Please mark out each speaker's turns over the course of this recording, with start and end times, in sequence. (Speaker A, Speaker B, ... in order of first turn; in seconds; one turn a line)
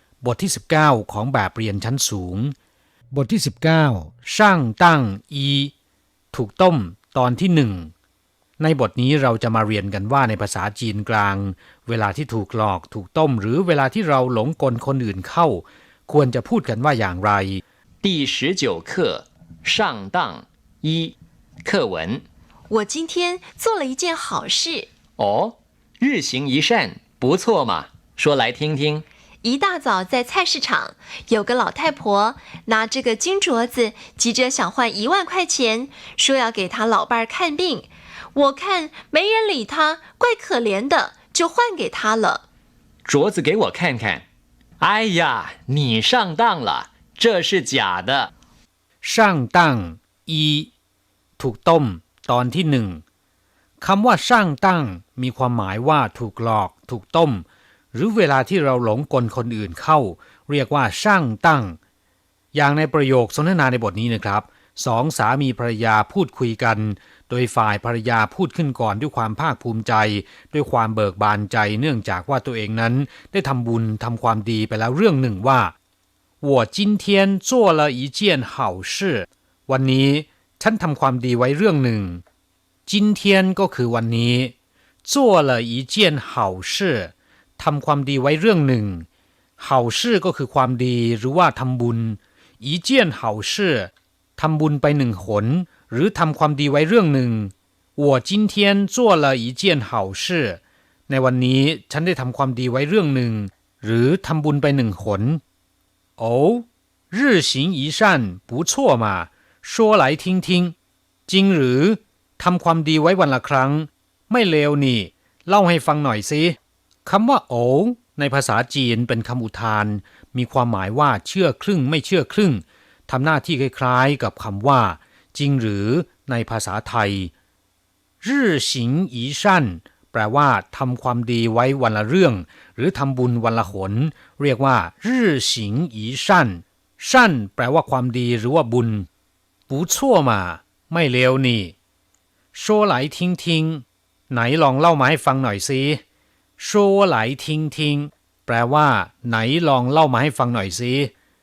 Speaker A: 0.2-2.5
Speaker A: 3.1-5.7
Speaker A: 6.3-7.9
Speaker A: 8.6-17.6
Speaker B: 18.0-22.2
Speaker C: 22.7-24.9
Speaker B: 25.2-29.1
Speaker C: 29.4-42.4
Speaker B: 43.0-44.3
Speaker B: 44.8-48.3
Speaker A: 49.0-50.7
Speaker A: 51.4-53.0
Speaker A: 53.8-61.8
Speaker A: 62.5-75.8
Speaker A: 76.4-82.2
Speaker A: 82.9-89.1
Speaker A: 89.6-105.4
Speaker A: 106.2-110.8
Speaker A: 111.3-127.3
Speaker A: 128.2-139.1
Speaker A: 139.7-141.8
Speaker A: 142.5-146.0
Speaker A: 146.6-151.1